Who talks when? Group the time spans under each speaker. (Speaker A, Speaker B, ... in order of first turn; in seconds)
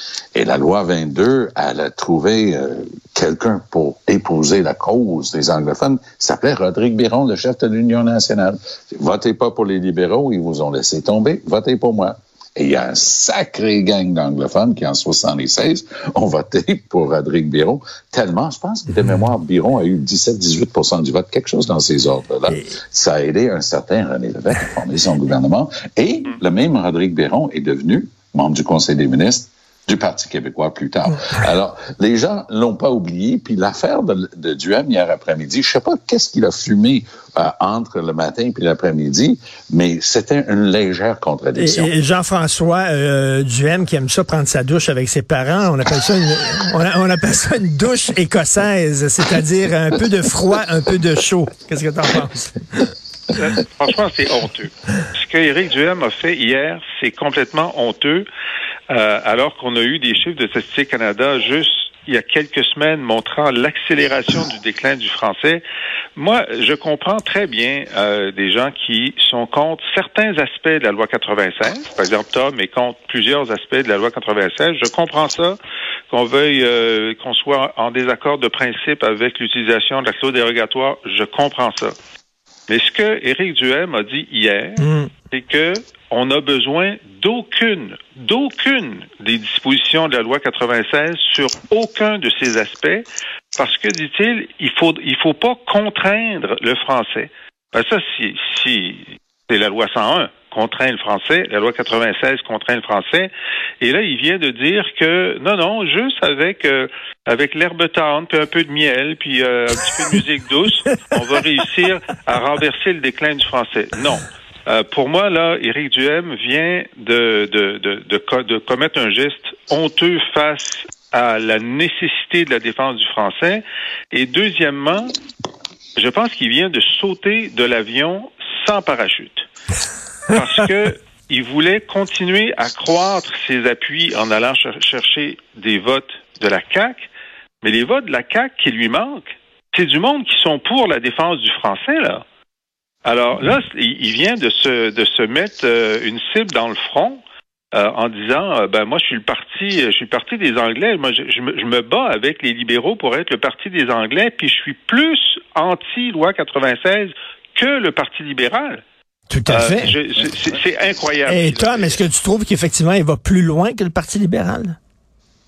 Speaker A: 0.3-41.9
Speaker B: 41.6-52.9, 84.8-85.1, 159.3-159.9, 161.3-164.8
Speaker C: 53.4-58.3, 58.9-65.6, 66.2-75.6, 76.1-81.9, 82.7-103.3, 103.8-125.1, 126.0-129.5, 130.3-137.1, 137.6-142.2, 143.1-147.2, 147.7-158.8, 159.5-162.1